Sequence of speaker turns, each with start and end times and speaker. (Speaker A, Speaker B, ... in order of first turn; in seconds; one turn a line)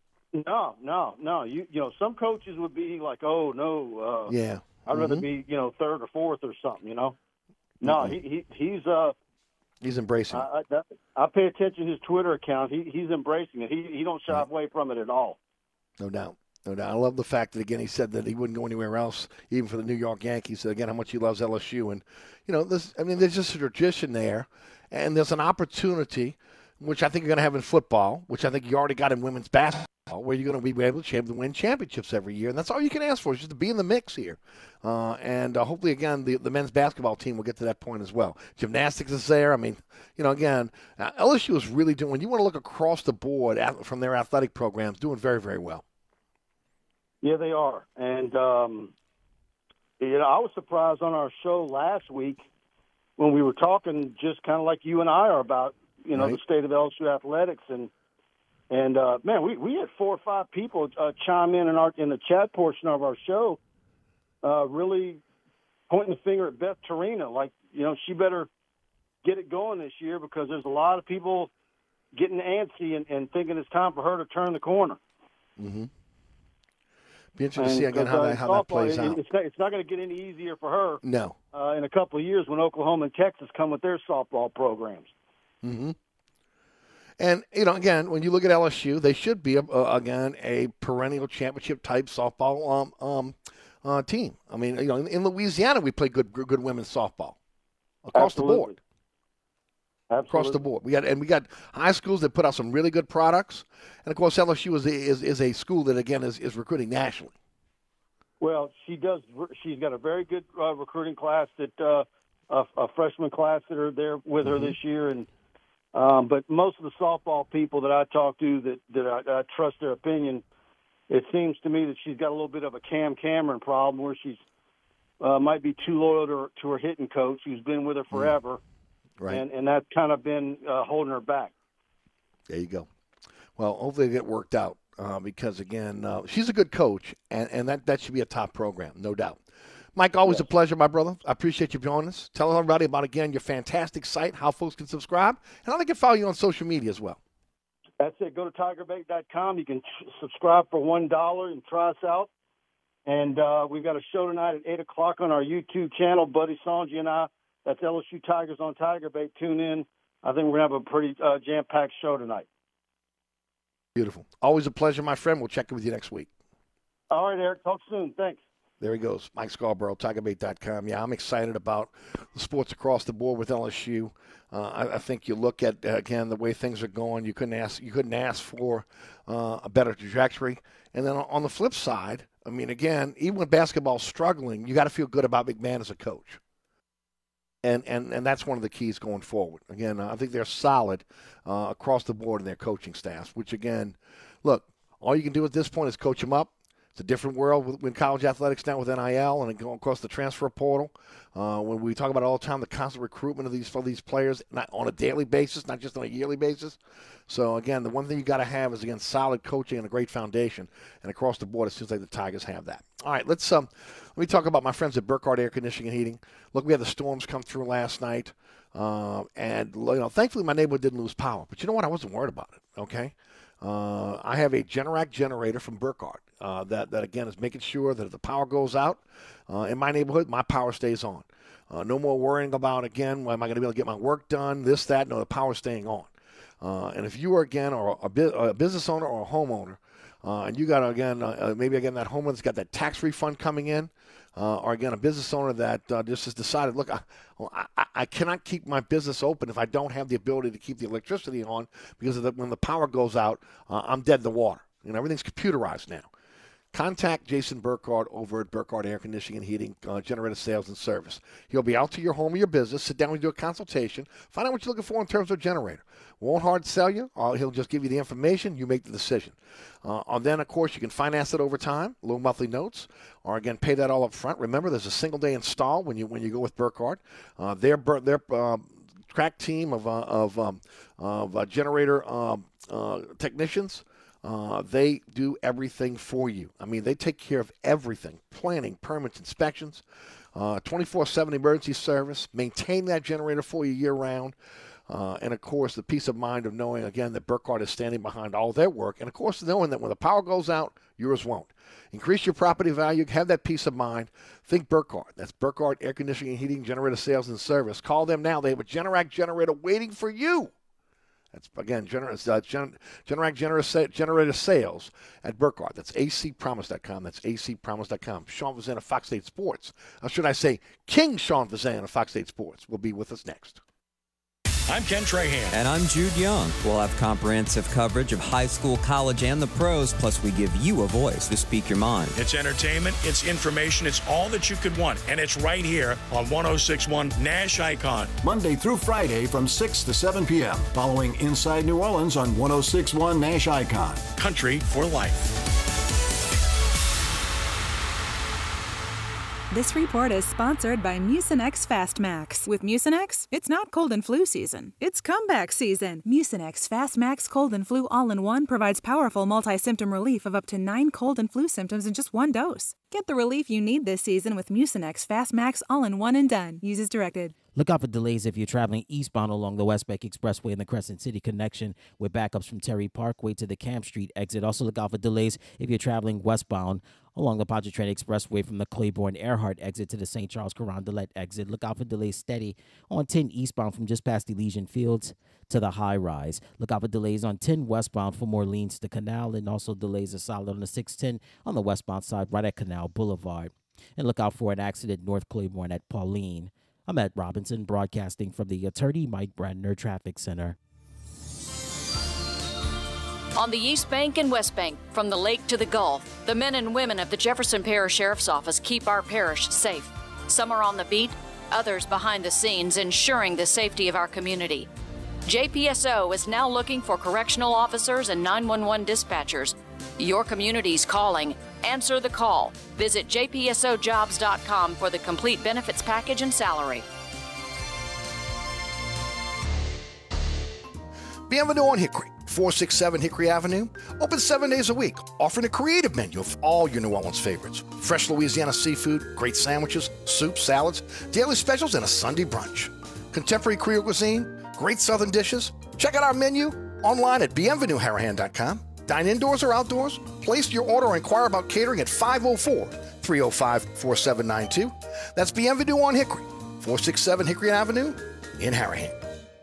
Speaker A: 0.3-4.3
Speaker B: 4.3-5.2
Speaker A: 4.9-7.2
Speaker A: 7.8-9.1
Speaker B: 7.8-8.2
Speaker B: 9.8-10.5
Speaker A: 10.3-15.4
Speaker B: 16.0-45.8
Speaker A: 47.2-48.9
Speaker A: 50.0-52.4
Speaker A: 53.2-57.9
Speaker A: 58.7-63.6
Speaker A: 64.4-65.2
Speaker A: 65.9-68.5
Speaker A: 69.2-71.5
Speaker A: 72.1-75.0
Speaker B: 75.6-75.9
Speaker B: 77.4-79.2
Speaker A: 77.6-81.0
Speaker B: 81.0-81.4
Speaker A: 81.5-85.1
Speaker B: 85.6-86.0
Speaker B: 87.2-97.4
Speaker B: 98.0-98.8
Speaker A: 98.1-98.8
Speaker A: 100.1-100.6
Speaker B: 100.3-107.3
Speaker A: 108.4-115.3
Speaker B: 114.4-114.8
Speaker A: 115.9-120.4
Speaker A: 121.1-124.4
Speaker A: 125.2-128.6
Speaker A: 129.3-131.5
Speaker B: 132.5-132.9
Speaker B: 133.6-139.4
Speaker B: 139.9-147.2
Speaker A: 148.0-152.3
Speaker A: 153.1-162.5
Speaker B: 163.9-166.3
Speaker A: 167.1-168.4
Speaker B: 168.8-186.4
Speaker B: 187.6-236.1
Speaker B: 236.6-256.1
Speaker B: 256.7-289.8
Speaker B: 290.4-294.4
Speaker B: 294.9-310.5
Speaker B: 311.3-323.6
Speaker C: 324.7-325.6
Speaker D: 325.5-332.1
Speaker C: 332.1-338.1
Speaker E: 338.2-344.1
Speaker C: 344.2-345.3
Speaker F: 349.5-367.4
Speaker G: 367.5-400.6
Speaker H: 403.4-414.7
Speaker H: 415.3-426.9
Speaker B: 431.3-459.0